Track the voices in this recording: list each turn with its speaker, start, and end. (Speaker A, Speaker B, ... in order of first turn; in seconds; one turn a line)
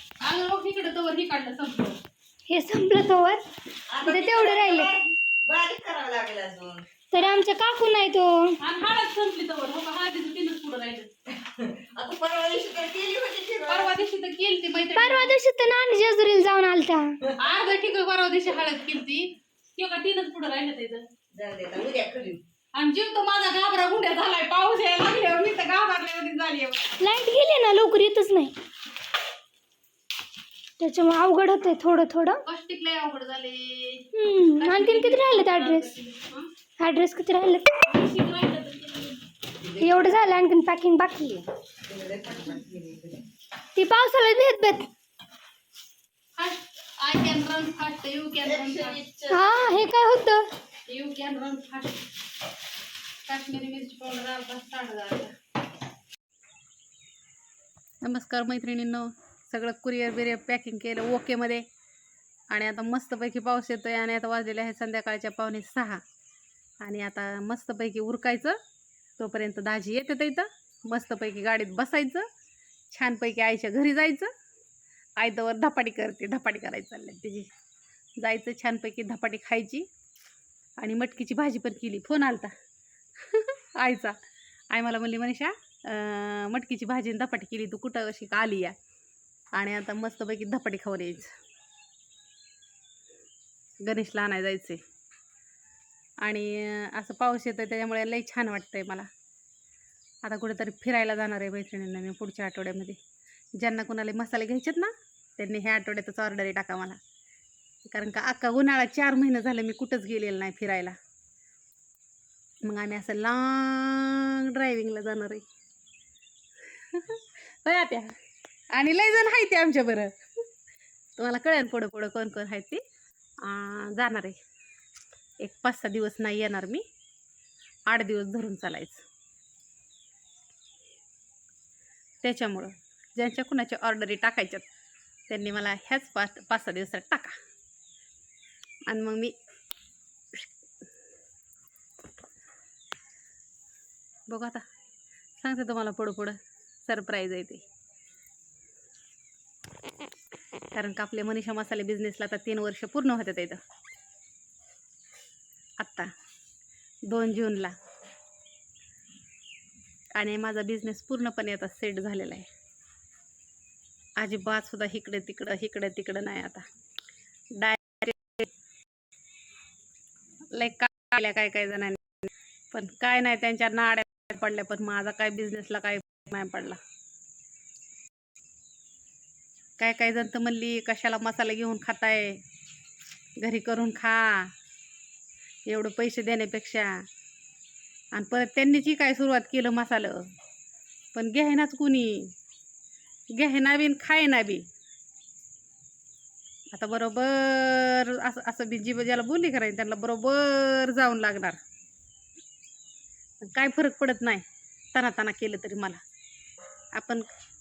Speaker A: 0.2-2.0
Speaker B: 2.5-3.4
Speaker C: 3.9-6.9
Speaker B: 4.0-4.9
Speaker B: 7.1-8.6
Speaker A: 8.6-11.1
Speaker C: 11.4-13.9
Speaker A: 13.7-15.3
Speaker B: 14.9-17.2
Speaker A: 17.4-21.1
Speaker C: 21.3-22.4
Speaker A: 22.8-26.8
Speaker B: 27.0-28.5
Speaker B: 30.8-32.4
Speaker A: 32.4-36.5
Speaker B: 34.1-35.9
Speaker B: 36.8-37.8
Speaker A: 37.8-39.2
Speaker C: 39.6-40.2
Speaker B: 39.8-41.5
Speaker C: 41.9-43.2
Speaker B: 43.8-44.9
Speaker A: 46.4-49.0
Speaker C: 48.4-49.5
Speaker B: 49.3-50.5
Speaker A: 50.9-52.0
Speaker A: 53.3-55.3
Speaker A: 58.0-61.7
Speaker A: 62.5-66.0
Speaker A: 66.8-68.6
Speaker A: 69.2-72.3
Speaker A: 72.9-74.3
Speaker A: 75.2-77.5
Speaker A: 78.2-79.9
Speaker A: 80.8-82.5
Speaker A: 83.3-84.2
Speaker A: 84.7-88.8
Speaker A: 89.5-91.3
Speaker A: 93.8-94.8
Speaker A: 96.2-99.1
Speaker A: 100.2-103.0
Speaker A: 103.6-107.0
Speaker A: 107.9-111.0
Speaker A: 112.6-115.4
Speaker A: 116.9-118.1
Speaker A: 118.7-120.1
Speaker A: 121.2-122.8
Speaker A: 123.4-124.4
Speaker A: 125.4-126.8
Speaker A: 127.9-129.0
Speaker A: 132.2-134.7
Speaker A: 135.3-137.3
Speaker A: 138.9-139.3
Speaker A: 144.3-144.6
Speaker A: 145.4-147.6
Speaker A: 150.7-153.6
Speaker A: 155.8-156.1
Speaker A: 157.1-157.7
Speaker A: 160.2-162.5
Speaker A: 164.2-166.7
Speaker A: 167.6-168.5
Speaker A: 170.5-172.0
Speaker A: 172.7-176.8
Speaker A: 179.8-182.4
Speaker A: 183.4-184.5
Speaker A: 185.7-187.0
Speaker A: 188.1-190.3
Speaker A: 191.1-192.3
Speaker A: 193.3-194.7
Speaker A: 196.7-201.6
Speaker A: 203.4-206.0
Speaker A: 206.9-207.2